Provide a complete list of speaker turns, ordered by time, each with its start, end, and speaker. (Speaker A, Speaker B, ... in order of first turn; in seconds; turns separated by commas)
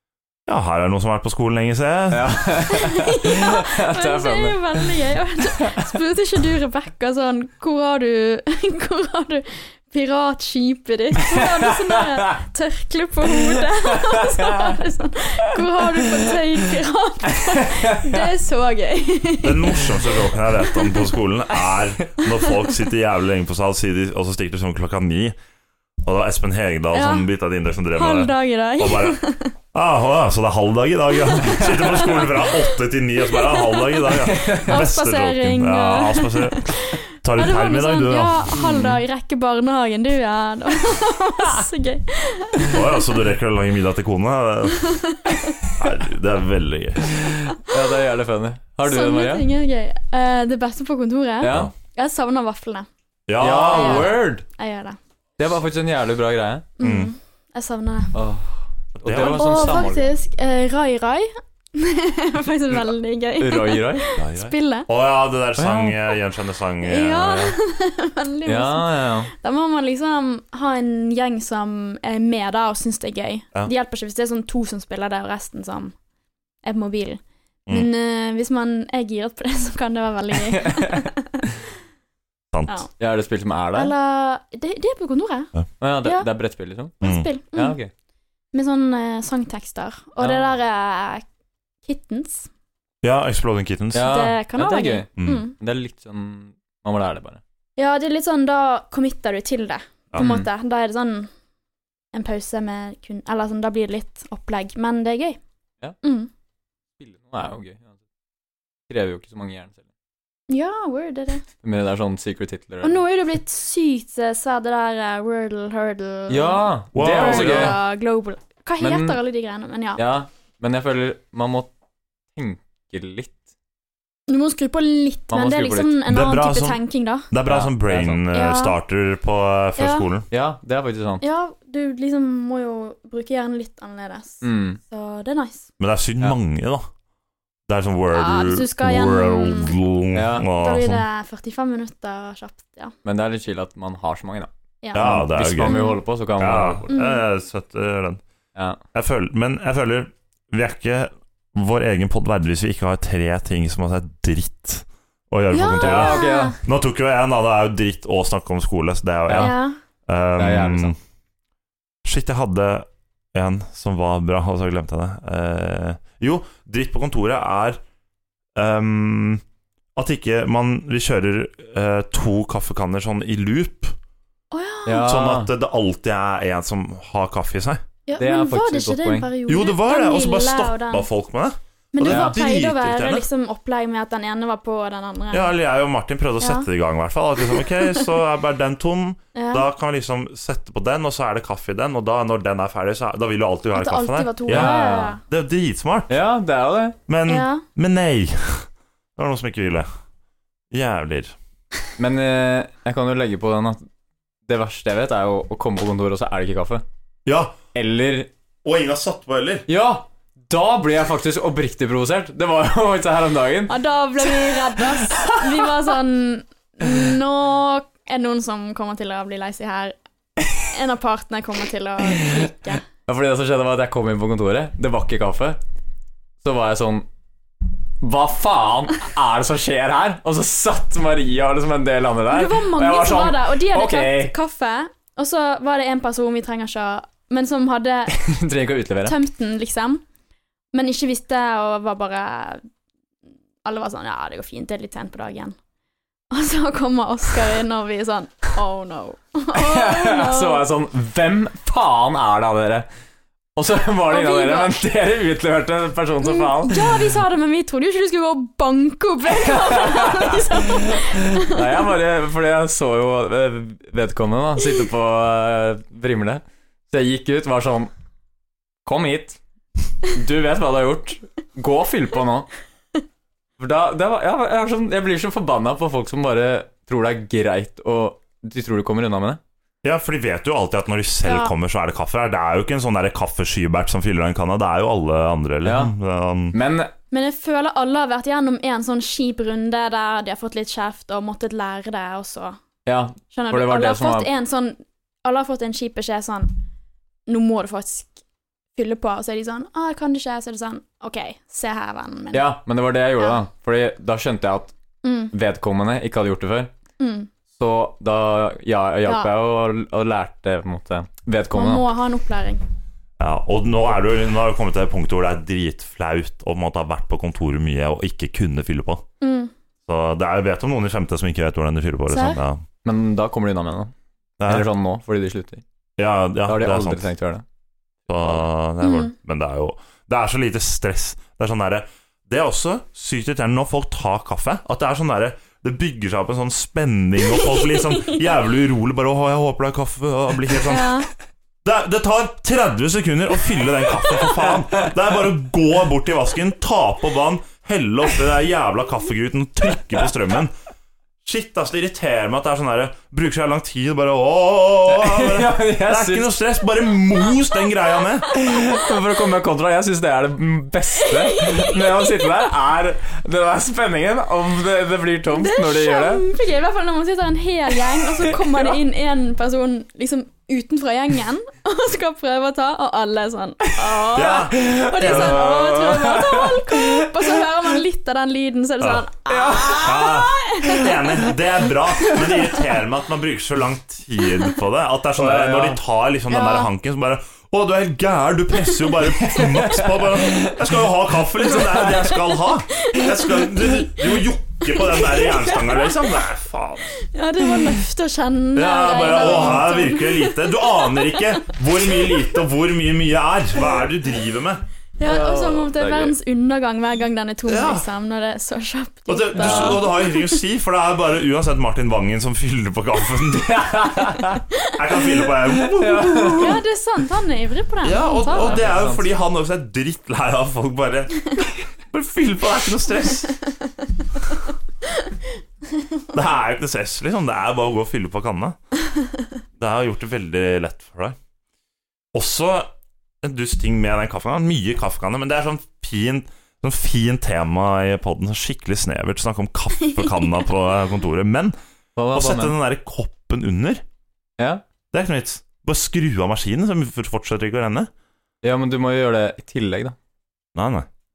Speaker A: 0.5-2.5, Speaker B: 2.1-5.9, Speaker C: 2.7-20.0, Speaker B: 11.2-12.3, Speaker B: 13.2-14.8, Speaker B: 15.5-16.6, Speaker B: 17.3-18.3, Speaker A: 19.4-25.4, Speaker A: 26.0-29.2, Speaker C: 26.9-27.3, Speaker C: 27.9-29.5, Speaker A: 29.7-39.0, Speaker C: 31.4-32.6, Speaker C: 33.3-43.1, Speaker B: 34.2-34.7, Speaker A: 42.7-44.8, Speaker C: 44.8-45.5, Speaker A: 45.8-47.2, Speaker B: 47.1-49.5, Speaker C: 48.8-52.9, Speaker B: 51.4-51.7, Speaker A: 51.4-51.7, Speaker A: 53.3-54.1, Speaker B: 53.4-54.4, Speaker C: 53.5-55.0, Speaker B: 55.4-56.7, Speaker C: 56.8-58.1, Speaker A: 56.8-57.1, Speaker B: 58.1-60.1, Speaker A: 59.0-59.8, Speaker C: 59.2-64.9, Speaker B: 63.4-64.1, Speaker A: 64.2-67.6, Speaker B: 65.6-65.9, Speaker C: 66.8-75.9, Speaker B: 68.4-69.3, Speaker C: 76.6-81.5, Speaker B: 80.5-81.0, Speaker A: 82.5-82.8, Speaker B: 83.0-83.9, Speaker C: 83.7-85.5, Speaker B: 85.8-87.0, Speaker C: 86.0-86.3, Speaker C: 87.0-87.8, Speaker A: 87.0-87.3, Speaker B: 87.5-87.9, Speaker C: 88.5-91.2, Speaker B: 90.2-90.5, Speaker C: 91.8-92.5, Speaker A: 93.0-94.1, Speaker B: 93.9-97.4, Speaker C: 94.0-95.5, Speaker A: 95.2-95.4, Speaker C: 97.8-101.3, Speaker B: 100.2-100.5, Speaker C: 102.1-105.4, Speaker C: 106.0-106.3, Speaker B: 107.0-107.9, Speaker B: 108.9-109.8, Speaker C: 110.5-111.4, Speaker B: 111.6-113.0, Speaker C: 112.8-120.0, Speaker B: 116.3-117.8, Speaker A: 116.9-117.8, Speaker B: 118.8-119.2, Speaker B: 120.0-121.7, Speaker B: 122.3-123.4, Speaker C: 124.3-127.3, Speaker B: 125.3-126.0, Speaker A: 126.0-130.3, Speaker B: 127.5-128.2, Speaker C: 128.3-128.7, Speaker C: 129.8-130.1, Speaker B: 130.3-131.2, Speaker C: 131.2-135.7, Speaker B: 134.4-134.8, Speaker A: 135.8-136.9, Speaker A: 137.7-141.0, Speaker C: 138.1-139.8, Speaker B: 140.1-140.5, Speaker C: 140.5-142.9, Speaker B: 143.0-146.9, Speaker C: 144.8-146.0, Speaker A: 144.9-145.8, Speaker A: 146.4-148.2, Speaker C: 146.9-147.2, Speaker A: 148.9-159.6, Speaker C: 155.5-156.6, Speaker B: 155.8-156.6, Speaker B: 159.3-159.5, Speaker C: 159.4-159.8, Speaker A: 160.1-160.9, Speaker B: 160.4-160.9, Speaker A: 162.0-167.8, Speaker A: 168.6-169.4, Speaker A: 169.9-173.9, Speaker C: 174.5-175.1, Speaker B: 174.8-175.5, Speaker A: 175.0-177.8, Speaker C: 178.1-181.1, Speaker B: 178.2-179.3, Speaker A: 179.5-183.2, Speaker C: 181.9-185.5, Speaker B: 182.1-182.4, Speaker A: 185.3-196.1, Speaker C: 186.4-186.7, Speaker C: 187.6-188.1, Speaker C: 189.3-189.6, Speaker C: 193.7-195.2, Speaker B: 194.5-195.2, Speaker B: 196.1-197.0, Speaker A: 197.1-199.9, Speaker C: 197.3-197.6, Speaker A: 200.7-201.3, Speaker B: 202.0-203.9, Speaker B: 204.5-206.8, Speaker A: 207.2-207.6, Speaker B: 207.7-208.3, Speaker A: 208.6-209.7, Speaker B: 209.7-215.7, Speaker C: 213.7-219.9, Speaker C: 220.6-222.8, Speaker B: 222.1-225.6, Speaker B: 226.4-227.1, Speaker B: 228.0-234.3, Speaker C: 232.3-238.2, Speaker B: 238.1-239.1, Speaker C: 239.0-240.0, Speaker C: 240.7-242.6, Speaker C: 243.6-245.5, Speaker C: 246.3-250.6, Speaker B: 249.5-252.8, Speaker B: 253.6-256.9, Speaker C: 254.1-254.7, Speaker C: 256.2-261.7, Speaker B: 259.3-267.9, Speaker B: 268.8-269.4, Speaker B: 270.1-272.5, Speaker B: 273.6-279.4, Speaker A: 279.8-286.6, Speaker C: 281.2-281.5, Speaker B: 285.6-285.9, Speaker B: 286.5-286.9, Speaker C: 287.1-292.6, Speaker B: 292.9-294.3, Speaker C: 293.3-296.5, Speaker C: 297.3-298.1, Speaker C: 298.8-302.5, Speaker B: 302.3-304.7, Speaker C: 305.0-305.3, Speaker B: 305.3-306.7, Speaker C: 307.0-307.3, Speaker B: 307.5-311.8, Speaker C: 309.1-309.3, Speaker C: 311.5-312.6, Speaker A: 313.2-319.0, Speaker C: 319.2-319.5, Speaker A: 319.9-322.6, Speaker C: 322.1-322.4, Speaker B: 322.8-323.9, Speaker A: 324.4-324.6, Speaker B: 324.5-325.6, Speaker A: 326.0-327.1, Speaker B: 326.4-327.4, Speaker A: 328.1-340.9, Speaker C: 328.8-329.1, Speaker C: 340.6-341.1, Speaker A: 341.6-350.5, Speaker A: 351.2-358.3, Speaker B: 354.9-356.3, Speaker B: 358.3-366.2, Speaker C: 361.1-362.3, Speaker C: 365.3-381.1, Speaker B: 368.3-368.7, Speaker A: 374.1-376.2, Speaker B: 374.5-377.4, Speaker B: 379.3-380.2, Speaker A: 379.8-397.0, Speaker B: 385.2-385.8, Speaker C: 386.3-386.7, Speaker B: 389.1-390.6, Speaker C: 391.6-394.0, Speaker C: 394.7-396.0, Speaker C: 397.0-401.2, Speaker A: 398.5-404.6, Speaker B: 399.3-399.6, Speaker C: 405.0-410.4, Speaker B: 405.0-405.7, Speaker A: 405.7-406.1, Speaker A: 407.5-407.9, Speaker A: 409.1-413.9, Speaker B: 409.4-409.8, Speaker B: 413.4-414.4, Speaker A: 414.7-416.6, Speaker B: 415.5-416.6, Speaker C: 416.3-418.6, Speaker A: 417.8-423.4, Speaker B: 418.3-419.1, Speaker A: 426.1-428.6, Speaker A: 429.6-431.1, Speaker A: 432.1-432.7, Speaker A: 433.2-441.6, Speaker B: 441.9-442.6, Speaker A: 442.1-443.8, Speaker B: 444.4-444.6, Speaker A: 444.9-447.9, Speaker B: 448.4-449.9, Speaker A: 450.5-450.9